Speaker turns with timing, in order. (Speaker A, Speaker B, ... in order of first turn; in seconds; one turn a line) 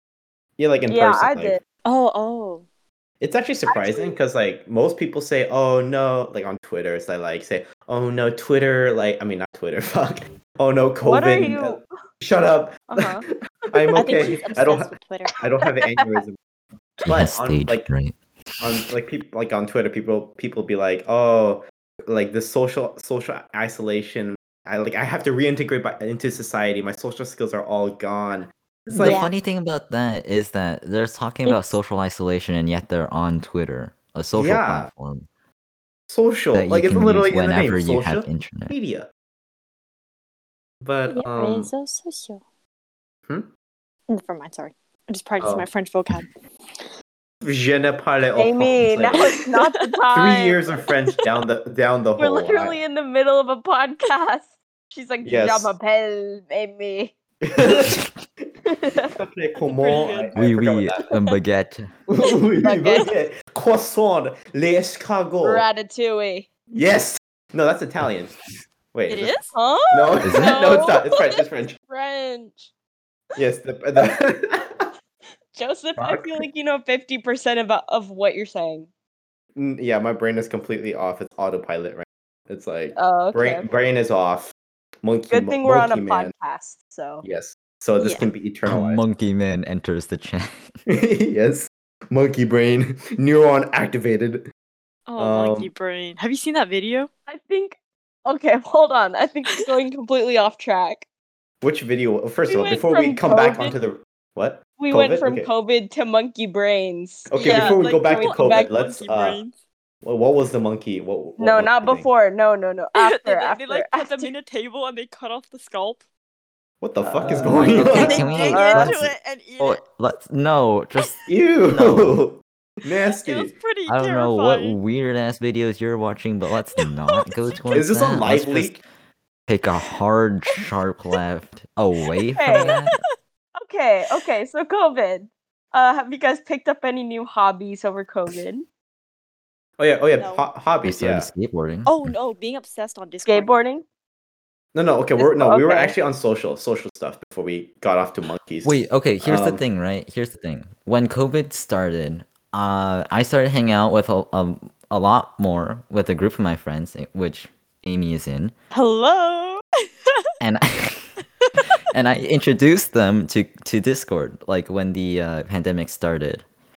Speaker A: 0.6-1.6
Speaker B: 0.9-1.6
Speaker C: 1.8-2.6
Speaker A: 3.2-16.4
Speaker B: 3.7-4.1
Speaker B: 11.0-11.8
Speaker B: 12.9-13.2
Speaker B: 13.8-14.2
Speaker C: 13.9-15.4
Speaker B: 15.9-16.2
Speaker A: 17.0-17.9
Speaker D: 17.0-18.1
Speaker A: 18.6-29.2
Speaker D: 28.9-35.2
Speaker C: 29.0-29.3
Speaker C: 31.4-31.7
Speaker A: 34.3-34.9
Speaker A: 36.1-39.1
Speaker D: 36.5-38.7
Speaker A: 40.8-41.7
Speaker C: 41.1-42.4
Speaker C: 44.1-46.3
Speaker A: 45.4-45.7
Speaker A: 47.4-49.3
Speaker B: 48.4-50.6
Speaker A: 50.1-52.8
Speaker B: 52.2-57.9
Speaker A: 55.2-55.7
Speaker A: 57.4-58.0
Speaker B: 58.6-59.1
Speaker A: 59.1-61.0
Speaker C: 59.7-60.4
Speaker D: 60.3-61.9
Speaker A: 62.1-65.7
Speaker B: 62.6-63.1
Speaker B: 65.4-66.5
Speaker A: 66.7-68.3
Speaker A: 68.9-69.3
Speaker C: 69.1-69.5
Speaker B: 69.5-72.7
Speaker A: 69.9-71.8
Speaker D: 70.2-70.8
Speaker A: 73.3-74.9
Speaker B: 75.5-78.9
Speaker A: 76.0-76.4
Speaker A: 79.5-84.5
Speaker B: 83.0-83.6
Speaker A: 85.0-86.3
Speaker B: 85.3-87.2
Speaker A: 87.2-89.0
Speaker C: 88.0-88.2
Speaker D: 88.7-90.7
Speaker A: 90.9-94.4
Speaker C: 95.1-97.1
Speaker A: 95.2-95.7
Speaker B: 97.3-101.0
Speaker A: 101.6-105.5
Speaker B: 102.5-103.8
Speaker B: 104.8-108.7
Speaker A: 107.3-109.4
Speaker C: 107.3-109.5
Speaker A: 110.0-112.1
Speaker B: 111.4-114.3
Speaker C: 113.0-116.0
Speaker A: 116.8-118.3
Speaker B: 117.0-118.9
Speaker D: 117.3-122.2
Speaker C: 117.4-119.8
Speaker A: 121.3-123.5
Speaker C: 123.2-124.8
Speaker D: 123.9-128.8
Speaker C: 126.8-127.8
Speaker A: 127.7-128.8
Speaker D: 129.5-133.0
Speaker B: 132.4-132.8
Speaker C: 132.5-132.9
Speaker B: 133.6-138.6
Speaker A: 139.8-141.3
Speaker C: 140.2-140.4
Speaker D: 140.8-142.1
Speaker C: 141.8-143.5
Speaker B: 143.2-143.8
Speaker A: 144.7-149.6
Speaker B: 145.2-145.9
Speaker D: 148.6-158.5
Speaker C: 158.7-159.6
Speaker D: 160.4-161.2
Speaker D: 161.9-166.4